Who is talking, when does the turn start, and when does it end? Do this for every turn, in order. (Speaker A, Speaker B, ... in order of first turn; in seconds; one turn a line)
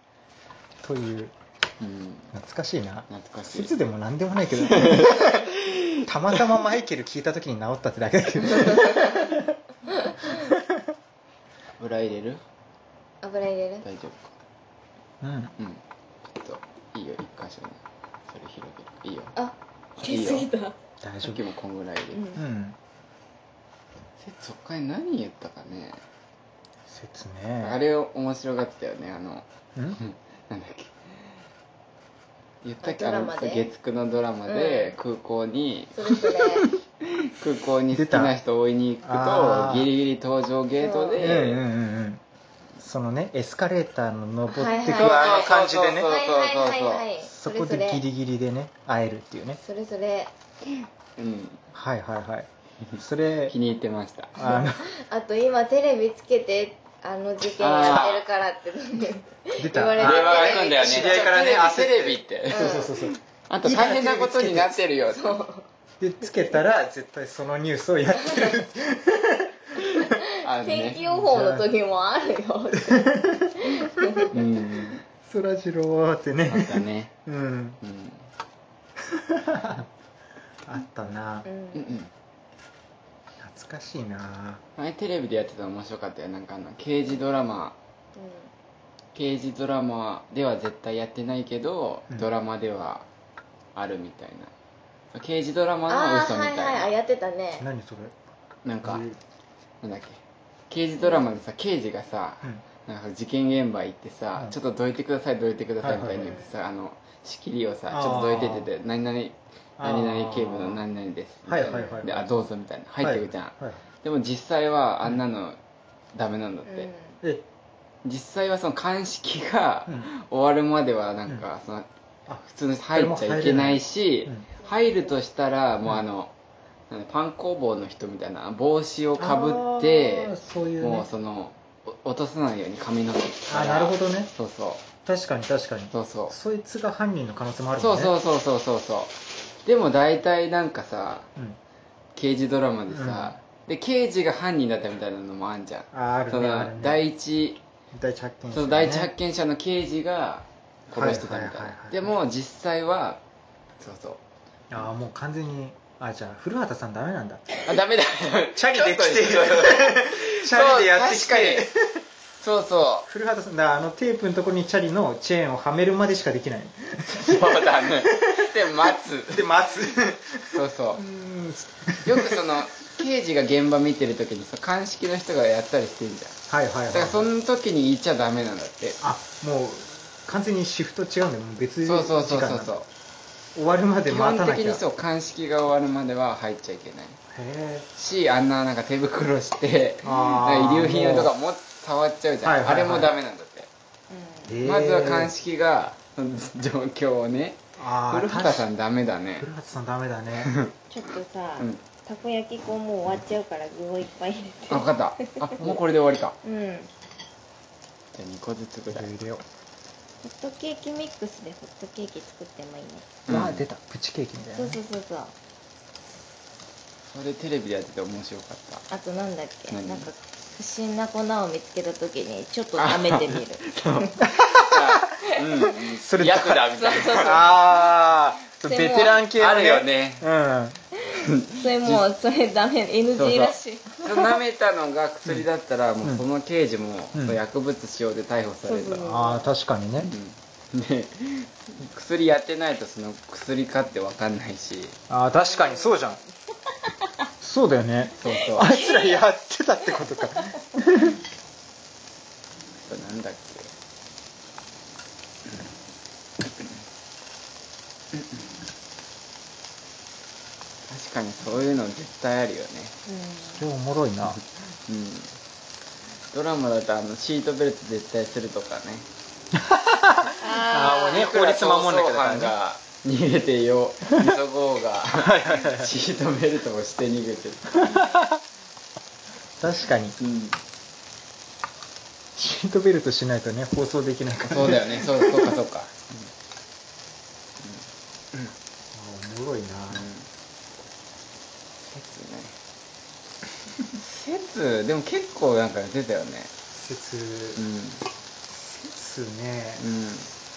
Speaker A: 0.8-1.3
Speaker B: 1.8-2.3
Speaker A: 2.3-9.6
Speaker B: 3.1-3.7
Speaker B: 4.6-6.1
Speaker C: 10.0-10.4
Speaker A: 10.2-10.9
Speaker B: 11.8-12.4
Speaker C: 13.2-13.9
Speaker B: 13.8-14.3
Speaker A: 15.2-15.6
Speaker B: 15.6-19.4
Speaker C: 19.4-20.8
Speaker B: 20.0-20.5
Speaker A: 21.0-21.4
Speaker B: 21.2-22.3
Speaker C: 22.1-22.4
Speaker A: 22.4-22.8
Speaker B: 24.2-26.0
Speaker A: 26.9-27.8
Speaker B: 27.6-29.5
Speaker B: 30.0-31.1
Speaker B: 32.6-41.6
Speaker C: 32.8-33.7
Speaker C: 34.5-35.0
Speaker C: 36.0-36.7
Speaker A: 37.9-38.4
Speaker A: 39.0-39.9
Speaker C: 40.8-41.3
Speaker A: 41.2-42.2
Speaker A: 42.8-46.1
Speaker C: 44.5-48.0
Speaker B: 44.9-47.1
Speaker A: 47.2-49.6
Speaker C: 49.6-50.3
Speaker B: 51.2-51.6
Speaker A: 51.7-53.5
Speaker B: 53.5-54.4
Speaker A: 54.4-55.0
Speaker C: 54.4-61.1
Speaker B: 57.5-58.2
Speaker A: 59.5-64.8
Speaker B: 60.0-65.3
Speaker C: 62.5-63.1
Speaker C: 65.1-65.7
Speaker A: 66.0-70.2
Speaker C: 68.3-68.6
Speaker C: 70.0-74.3
Speaker B: 70.4-71.0
Speaker A: 71.0-71.7
Speaker A: 72.8-74.3
Speaker B: 74.3-75.0
Speaker A: 75.2-77.8
Speaker B: 76.5-77.1
Speaker B: 77.8-78.3
Speaker A: 79.0-79.9
Speaker A: 80.7-81.5
Speaker C: 81.5-81.9
Speaker B: 81.7-82.1
Speaker A: 83.4-84.6
Speaker B: 84.8-87.8
Speaker C: 88.2-88.5
Speaker B: 89.2-93.1
Speaker B: 93.8-94.5
Speaker B: 95.1-96.9
Speaker C: 95.9-97.7
Speaker A: 97.6-98.1
Speaker B: 98.7-99.0
Speaker A: 98.8-99.2
Speaker B: 99.8-115.6
Speaker A: 105.8-106.2
Speaker C: 106.2-106.5
Speaker A: 107.9-108.7
Speaker A: 109.8-110.8
Speaker A: 111.5-112.3
Speaker C: 111.7-112.0
Speaker A: 113.0-113.8
Speaker B: 116.2-116.9
Speaker C: 116.7-117.2
Speaker B: 118.0-121.9
Speaker A: 122.3-124.5
Speaker B: 122.5-126.3
Speaker C: 124.6-125.1
Speaker B: 126.9-134.8
Speaker A: 129.2-131.1
Speaker A: 133.5-134.3
Speaker A: 135.1-138.1
Speaker B: 135.9-136.4
Speaker B: 137.8-139.1
Speaker B: 139.7-141.3
Speaker B: 142.2-147.6
Speaker A: 142.9-143.3
Speaker A: 145.9-147.0
Speaker A: 147.9-149.1
Speaker B: 148.5-153.2
Speaker A: 150.9-152.1
Speaker B: 153.8-154.2
Speaker A: 154.7-157.5
Speaker B: 157.6-161.7
Speaker A: 158.6-162.0
Speaker B: 162.4-163.1
Speaker A: 163.1-172.6
Speaker B: 167.1-169.5
Speaker B: 170.5-171.0
Speaker B: 172.0-179.0
Speaker A: 176.5-177.3
Speaker A: 179.0-182.8
Speaker B: 181.9-182.9
Speaker A: 183.6-184.8
Speaker B: 184.1-187.2
Speaker A: 187.3-187.9
Speaker B: 187.9-193.7
Speaker A: 190.0-191.3
Speaker A: 192.4-193.1
Speaker C: 194.1-194.6
Speaker A: 194.5-195.3
Speaker B: 194.6-199.5
Speaker A: 197.8-198.7
Speaker A: 199.4-200.5
Speaker B: 200.4-200.8
Speaker C: 200.9-205.7
Speaker B: 204.7-206.4
Speaker C: 206.4-206.9
Speaker B: 208.1-209.1
Speaker A: 208.9-209.4
Speaker C: 210.2-213.2
Speaker B: 213.3-213.6
Speaker A: 213.3-214.8
Speaker C: 214.5-215.3
Speaker B: 217.1-218.8
Speaker C: 218.9-224.2
Speaker B: 219.7-220.1
Speaker B: 222.8-227.4
Speaker A: 224.2-224.9
Speaker C: 225.3-225.6
Speaker A: 226.0-230.8
Speaker C: 226.8-227.6
Speaker C: 228.6-229.3
Speaker B: 229.4-230.3
Speaker B: 231.1-232.0
Speaker C: 231.1-234.4
Speaker B: 233.2-239.1
Speaker A: 237.1-237.4
Speaker C: 238.7-239.5
Speaker A: 239.0-240.1
Speaker B: 240.0-245.0
Speaker A: 245.1-246.2
Speaker C: 245.3-246.2
Speaker C: 246.9-247.3
Speaker A: 247.4-251.2
Speaker B: 248.2-248.8
Speaker C: 248.4-249.2
Speaker C: 250.0-250.5
Speaker B: 252.8-253.7
Speaker B: 258.1-258.4
Speaker B: 260.9-263.0
Speaker C: 263.1-263.7
Speaker A: 263.4-264.4
Speaker B: 264.9-265.4
Speaker B: 266.3-269.1
Speaker A: 269.5-272.6
Speaker C: 270.4-271.3
Speaker B: 271.1-278.0
Speaker A: 275.2-275.9
Speaker A: 277.7-278.4
Speaker A: 279.6-280.2
Speaker B: 280.2-280.6
Speaker A: 282.4-285.6
Speaker B: 284.5-286.3
Speaker A: 288.9-290.1
Speaker B: 289.9-290.3
Speaker B: 291.9-292.6
Speaker B: 294.0-296.5
Speaker A: 296.7-297.6
Speaker B: 297.6-298.0
Speaker A: 298.5-299.8
Speaker B: 299.8-300.3